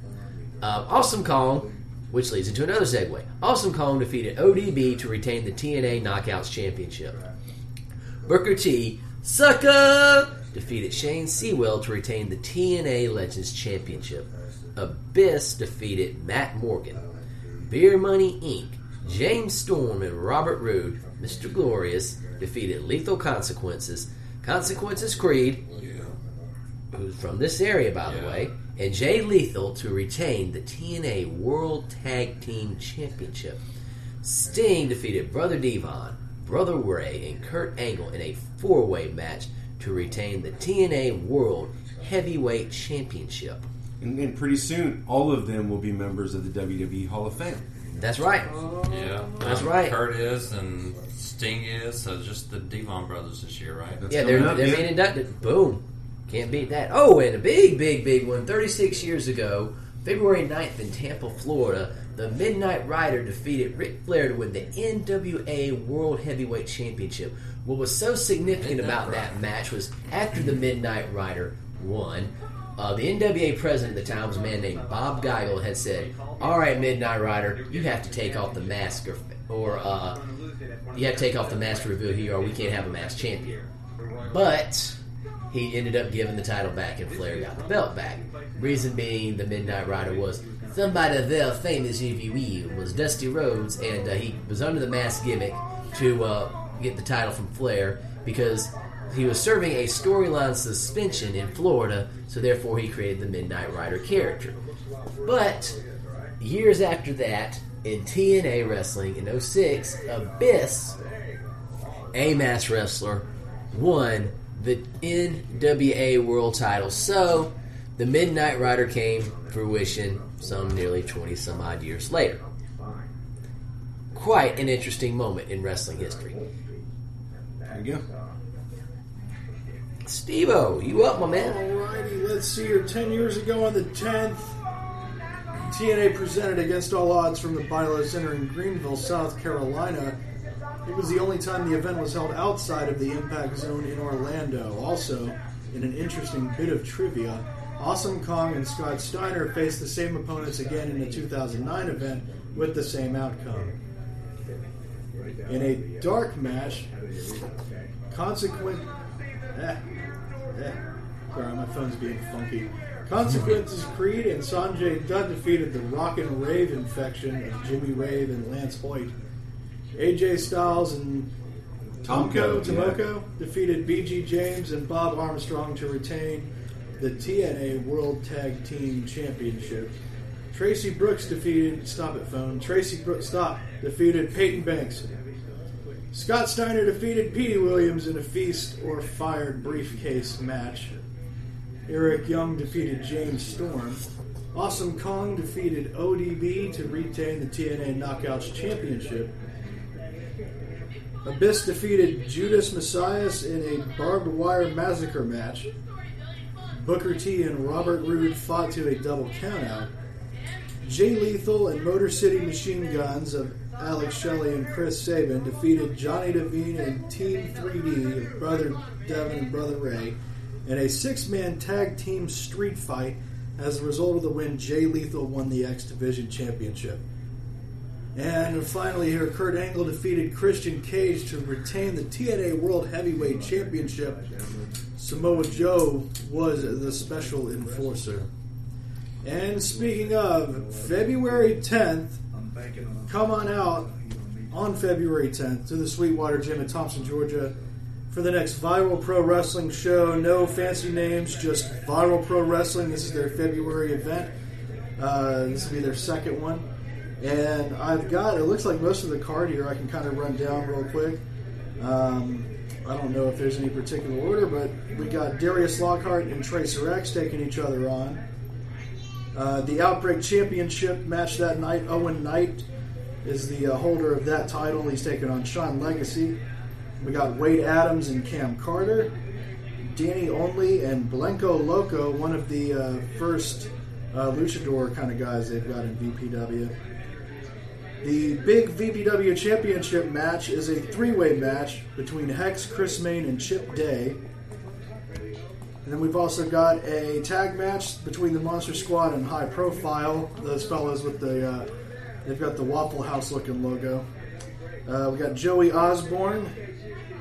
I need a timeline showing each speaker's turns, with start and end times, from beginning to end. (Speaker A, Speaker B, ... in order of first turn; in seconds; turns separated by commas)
Speaker A: 0.6-7.2, Speaker A: 8.2-17.0, Speaker A: 17.6-25.7, Speaker B: 25.8-26.1, Speaker A: 26.9-33.6, Speaker B: 28.0-28.5, Speaker A: 34.2-43.6, Speaker C: 44.0-47.6, Speaker A: 47.9-48.5, Speaker D: 48.5-49.4, Speaker B: 48.9-54.0, Speaker A: 49.4-50.0, Speaker C: 54.0-54.9, Speaker A: 54.1-80.2, Speaker B: 68.6-69.4, Speaker A: 80.9-83.7, Speaker A: 84.2-85.0, Speaker A: 85.5-104.6, Speaker A: 105.2-105.8, Speaker A: 106.4-111.0, Speaker A: 112.1-122.4, Speaker A: 124.1-126.5, Speaker C: 127.7-128.0, Speaker A: 130.0-131.6, Speaker D: 131.2-134.6, Speaker D: 135.7-140.2, Speaker D: 140.8-153.8, Speaker D: 155.5-156.9, Speaker D: 158.1-158.9, Speaker D: 159.5-159.8, Speaker D: 160.5-169.1, Speaker D: 169.9-171.3, Speaker C: 172.0-173.0, Speaker D: 172.0-179.9, Speaker D: 180.5-185.1, Speaker D: 186.1-191.0, Speaker D: 191.9-194.0, Speaker D: 194.5-199.3, Speaker D: 201.2-205.7, Speaker D: 206.7-209.9, Speaker D: 210.8-227.0, Speaker D: 228.2-234.3, Speaker D: 235.0-238.3, Speaker D: 239.2-242.2, Speaker D: 243.1-243.9, Speaker D: 244.5-247.5, Speaker D: 248.1-254.3, Speaker D: 255.0-256.6, Speaker D: 257.2-261.2, Speaker D: 261.8-268.2, Speaker D: 269.3-272.6, Speaker D: 273.2-276.4, Speaker D: 277.0-279.1, Speaker D: 279.8-286.8, Speaker D: 288.0-294.2, Speaker D: 295.8-301.7, Speaker D: 302.2-304.1, Speaker D: 304.9-306.5